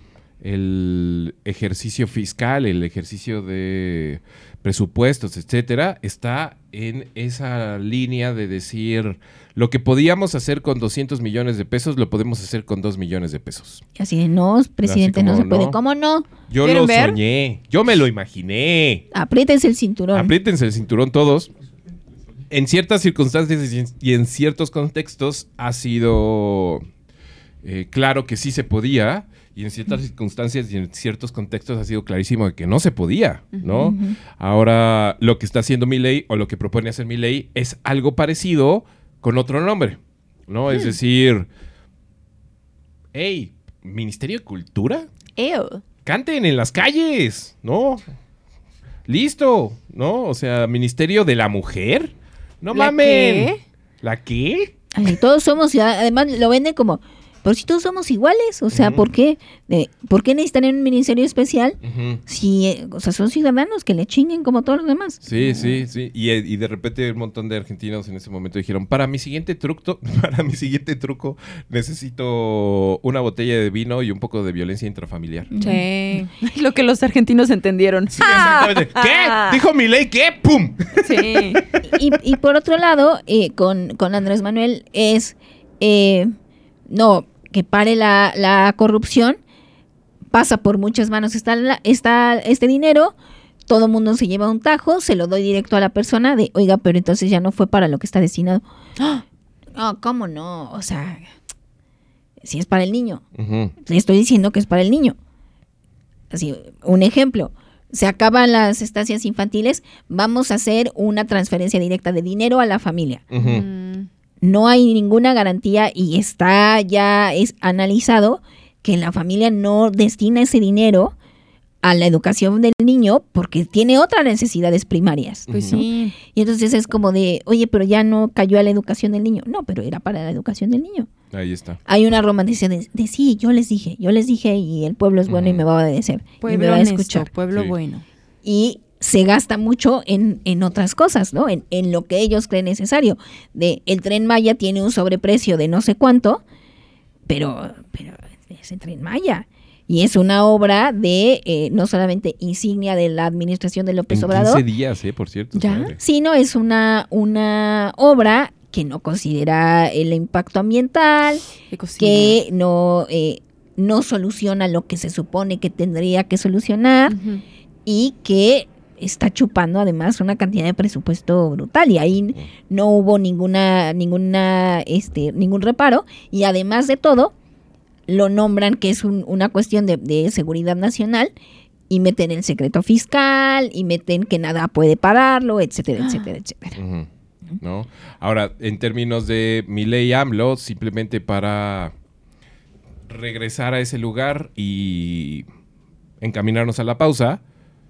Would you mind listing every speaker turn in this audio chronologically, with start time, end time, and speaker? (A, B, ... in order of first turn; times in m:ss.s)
0:00.4-0:13.8 A
0:14.0-0:16.3 B
0:14.8-0:15.8 A
0:16.5-0:19.0 A
0:16.6-0:17.2 C
0:19.1-0:20.3 B
0:20.1-0:21.5 A
0:22.5-0:26.8 A
0:27.6-0:41.5 A
0:33.5-0:33.9 C
0:33.8-0:34.2 B
0:43.1-0:45.1 A
0:45.4-0:45.8 C
0:46.1-0:48.0 A
0:49.1-0:54.7 A
0:52.7-0:53.6 C
0:54.9-1:05.2 B
0:58.7-0:59.1 A
1:01.8-1:02.2 A
1:05.2-1:15.5 A
1:05.4-1:05.8 C
1:15.5-1:15.8 B
1:15.6-1:19.6 C
1:18.1-1:21.6 A
1:21.0-1:21.7 C
1:21.8-1:26.3 B
1:26.9-1:29.4 B
1:30.3-1:33.2 B
1:33.7-1:38.6 B
1:39.0-1:39.2 C
1:39.8-1:41.3 B
1:42.4-1:43.2 B
1:43.4-1:43.7 A
1:43.8-1:45.2 B
1:46.3-1:53.2 B
1:53.3-1:53.7 A
1:53.4-1:54.1 C
1:54.4-2:01.2 B
2:01.8-2:11.1 B
2:05.5-2:05.8 A
2:05.5-2:06.2 C
2:11.3-2:11.8 A
2:11.9-2:17.3 B
2:15.3-2:15.6 A
2:16.4-2:18.0 C
2:17.5-2:17.8 A
2:18.4-2:26.4 B
2:27.3-2:34.6 B
2:34.1-2:36.0 A
2:35.5-2:36.0 C
2:36.0-2:41.5 B
2:41.7-2:42.4 C
2:42.0-2:47.2 B
2:47.1-2:47.4 C
2:47.9-2:57.3 B
2:58.1-3:01.3 B
3:01.9-3:06.8 B
3:06.0-3:06.3 C
3:06.8-3:07.1 A
3:07.6-3:11.9 A
3:13.1-3:15.5 A
3:16.2-3:17.4 A